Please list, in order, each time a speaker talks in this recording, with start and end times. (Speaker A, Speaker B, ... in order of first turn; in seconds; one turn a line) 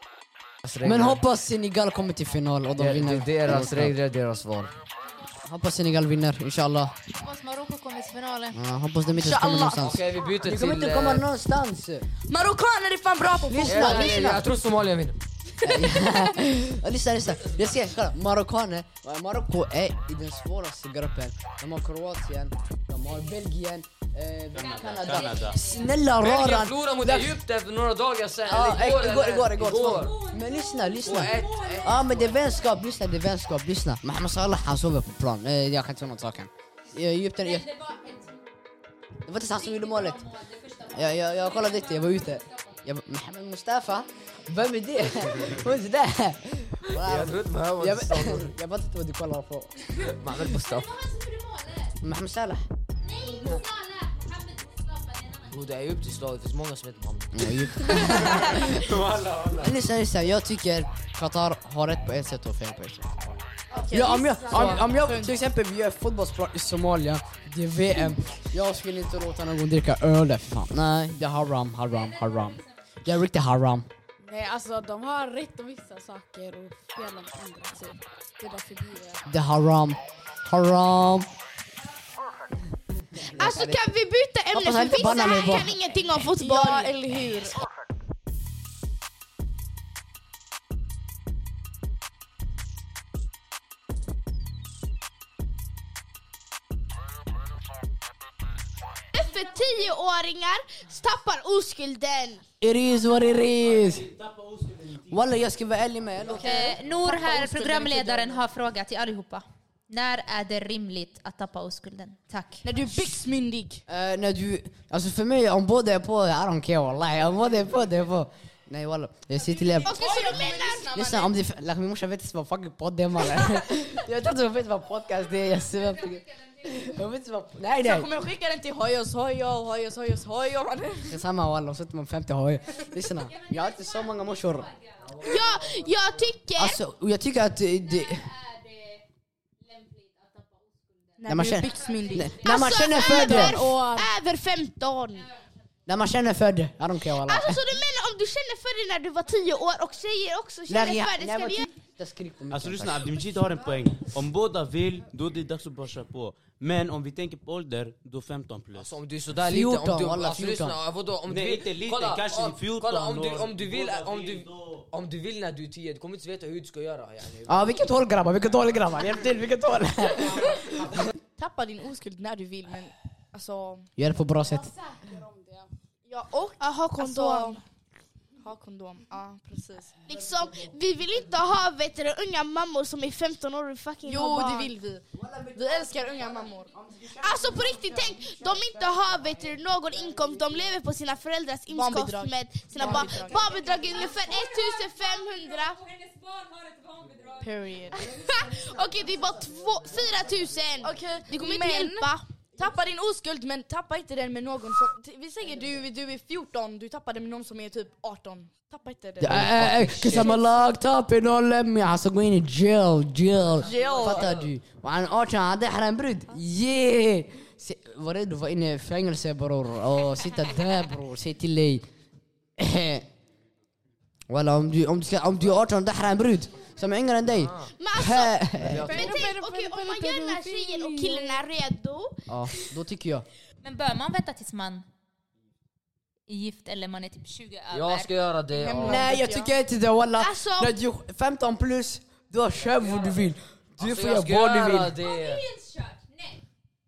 Speaker A: 0.6-1.2
Speaker B: 0.8-4.0
Speaker A: 2.8-4.7
Speaker B: 5.4-6.9
Speaker C: 7.2-8.6
Speaker B: 8.5-12.1
Speaker D: 9.1-9.8
Speaker A: 9.8-11.2
Speaker D: 12.3-14.3
Speaker B: 13.5-14.5
Speaker A: 13.7-15.2
Speaker B: 15.6-27.4
Speaker D: 15.7-16.2
Speaker A: 17.2-17.8
Speaker E: 24.5-25.6
Speaker C: 24.6-25.9
Speaker A: 26.2-30.1
Speaker B: 28.5-37.7
Speaker C: 29.9-32.6
Speaker A: 31.0-32.1
Speaker C: 37.4-38.4
Speaker B: 39.3-40.2
Speaker C: 39.5-42.8
Speaker B: 40.9-50.1
Speaker A: 47.0-48.5
Speaker A: 50.1-50.9
Speaker C: 50.5-52.0
Speaker B: 52.0-52.6
Speaker C: 53.0-55.6
Speaker B: 53.3-53.6
Speaker A: 55.5-58.2
Speaker B: 57.3-59.0
Speaker E: 58.8-59.7
Speaker B: 59.6-63.3
Speaker D: 63.7-65.5
Speaker F: 63.9-64.9
Speaker B: 63.9-73.9
Speaker C: 72.0-72.7
Speaker F: 74.2-79.2
Speaker B: 79.3-81.3
Speaker B: 83.1-83.8
Speaker G: 83.2-86.9
Speaker B: 84.5-85.8
Speaker D: 86.3-87.6
Speaker G: 99.1-102.4
Speaker C: 99.3-99.9
Speaker B: 102.6-104.1
Speaker E: 103.6-105.4
Speaker B: 105.1-106.6
Speaker D: 106.3-108.4
Speaker C: 106.4-112.6
Speaker D: 112.6-113.8
Speaker B: 113.9-120.4
Speaker G: 119.8-121.0
Speaker D: 119.8-121.3
Speaker B: 120.9-128.1
Speaker C: 125.8-126.7
Speaker D: 127.8-131.2
Speaker B: 131.0-134.7
Speaker C: 132.7-135.1
Speaker A: 135.1-135.8
Speaker G: 135.2-136.8
Speaker B: 136.6-138.2
Speaker C: 137.8-139.1
Speaker C: 139.6-143.1
Speaker D: 141.2-142.4
Speaker B: 141.3-143.6
Speaker G: 142.4-145.3
Speaker D: 143.1-144.0
Speaker C: 145.2-145.4
Speaker B: 145.9-147.6
Speaker G: 147.2-151.7
Speaker B: 150.7-153.2
Speaker E: 152.5-158.9
Speaker A: 158.8-167.9
Speaker B: 159.4-160.8
Speaker E: 161.3-164.9
Speaker B: 167.5-171.0
Speaker D: 171.4-173.9
Speaker B: 174.0-174.7
Speaker F: 174.4-175.7
Speaker D: 176.1-177.6
Speaker G: 176.6-177.6
Speaker D: 178.4-180.0
Speaker G: 180.1-184.7
Speaker D: 184.1-185.0
Speaker B: 185.1-190.4
Speaker D: 185.5-186.7
Speaker G: 187.2-195.8
Speaker D: 191.7-193.9
Speaker C: 193.2-197.6
Speaker D: 197.4-198.1
Speaker G: 197.9-202.2
Speaker F: 198.2-198.7
Speaker D: 200.8-210.3
Speaker B: 209.2-221.8
Speaker E: 209.4-210.3
Speaker D: 213.7-214.3
Speaker A: 213.7-214.4
Speaker B: 222.6-223.1
Speaker B: 224.3-228.9
Speaker A: 227.3-227.7
Speaker G: 227.8-232.6
Speaker A: 228.6-229.1
Speaker D: 228.9-231.4
Speaker F: 229.1-229.6
Speaker B: 232.5-233.2
Speaker C: 233.6-234.9
Speaker C: 236.3-238.1
Speaker A: 237.7-239.2
Speaker D: 238.5-239.5
Speaker B: 238.8-245.0
Speaker G: 240.2-240.7
Speaker A: 243.8-245.4
Speaker C: 245.0-246.4